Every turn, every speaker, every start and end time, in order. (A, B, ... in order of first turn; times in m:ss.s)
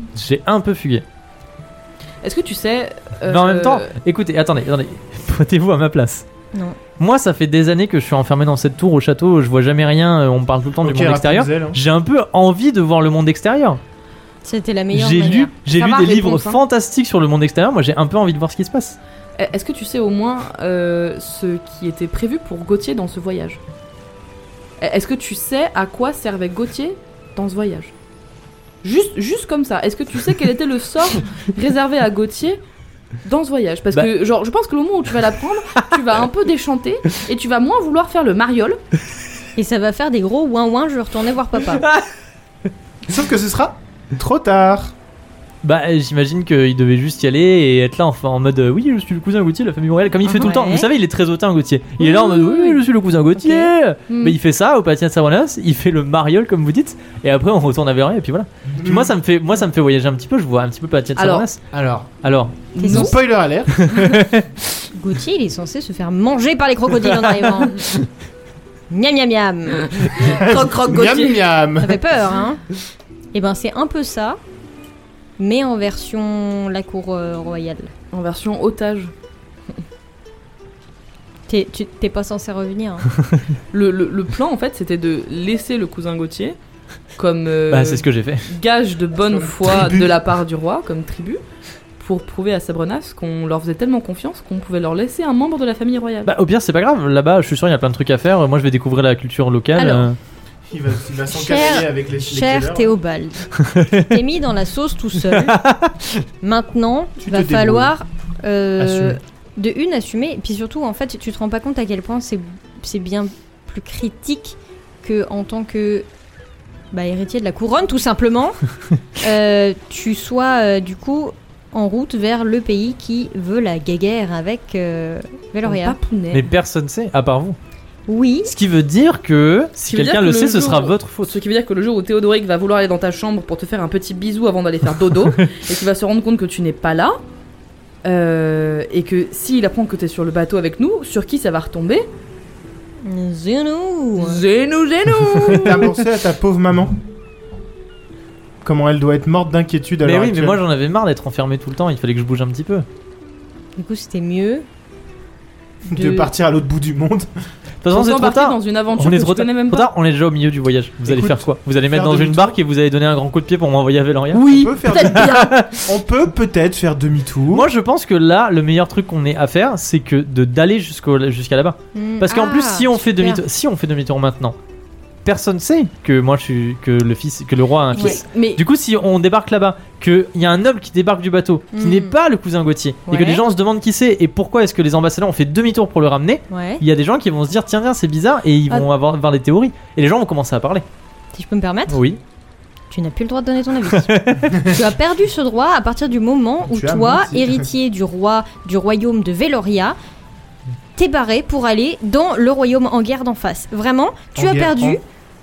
0:00.1-0:01.0 A
0:02.2-0:03.9 B
0:03.3-0:06.2 A
0:06.5-0:06.8 C
0:07.0-0:13.8 A
0:10.8-0:11.8 D
0:14.4-0:15.5 C
0:14.9-0:19.0 A
0:15.7-0:16.6 B
0:19.4-0:23.6 B
0:24.8-0:27.9 B
0:28.8-0:32.6 B
0:33.2-0:38.8 B
0:39.6-0:41.8 C
0:41.8-0:42.1 A
0:43.1-0:44.9 D
0:45.6-1:01.6 A
0:50.2-0:50.9 C
0:52.0-0:52.6 C
0:52.3-0:52.7 B
0:53.4-0:53.7 C
0:54.1-0:54.3 B
0:58.7-0:59.1 D
1:01.2-1:01.4 B
1:01.7-1:02.1 D
1:02.2-1:02.6 A
1:02.7-1:03.2 B
1:02.8-1:03.2 C
1:02.8-1:03.9 D
1:03.7-1:04.5 A
1:04.9-1:08.0 C
1:07.2-1:07.9 A
1:08.9-1:10.0 C
1:09.9-1:11.4 B
1:10.1-1:12.0 D
1:11.8-1:12.6 C
1:13.3-1:14.4 C
1:15.4-1:17.9 C
1:18.1-1:19.1 B
1:21.5-1:23.1 C
1:23.7-1:26.6 B
1:27.2-1:31.4 B
1:27.7-1:28.5 A
1:29.3-1:30.1 D
1:32.0-1:36.3 B
1:36.2-1:40.2 A
1:39.8-1:40.1 C
1:40.7-1:42.9 D
1:41.3-1:45.6 C
1:43.6-1:44.1 A
1:45.3-1:46.2 A
1:46.4-1:56.1 C
1:47.2-1:47.9 D
1:48.8-1:49.2 D
1:56.9-1:58.6 C
1:59.2-2:06.0 C
2:05.6-2:06.5 B
2:06.3-2:07.6 A
2:08.1-2:08.5 C
2:08.4-2:11.4 A
2:09.9-2:17.2 B
2:18.0-2:22.1 B
2:23.0-2:24.4 C
2:24.2-2:25.9 B
2:25.5-2:27.0 D
2:28.6-2:30.6 D
2:30.0-2:32.8 A
2:33.8-2:34.6 C
2:35.9-2:37.3 D
2:35.9-2:36.2 C
2:37.8-2:45.8 A
2:37.9-2:39.9 B
2:41.0-2:42.6 D
2:44.3-2:45.6 B
2:44.5-2:47.7 D
2:47.5-2:54.6 A
2:51.9-2:53.4 C
2:55.2-3:10.8 A
2:57.9-2:58.6 B
2:57.9-2:58.2 C
3:01.7-3:02.1 C
3:03.1-3:03.4 C
3:06.5-3:06.8 C
3:11.3-3:12.0 C
3:11.9-3:12.2 A
3:12.9-3:20.0 C
3:13.9-3:14.6 A
3:14.5-3:14.8 D
3:16.6-3:17.7 D
3:21.0-3:25.0 C
3:24.4-3:25.0 D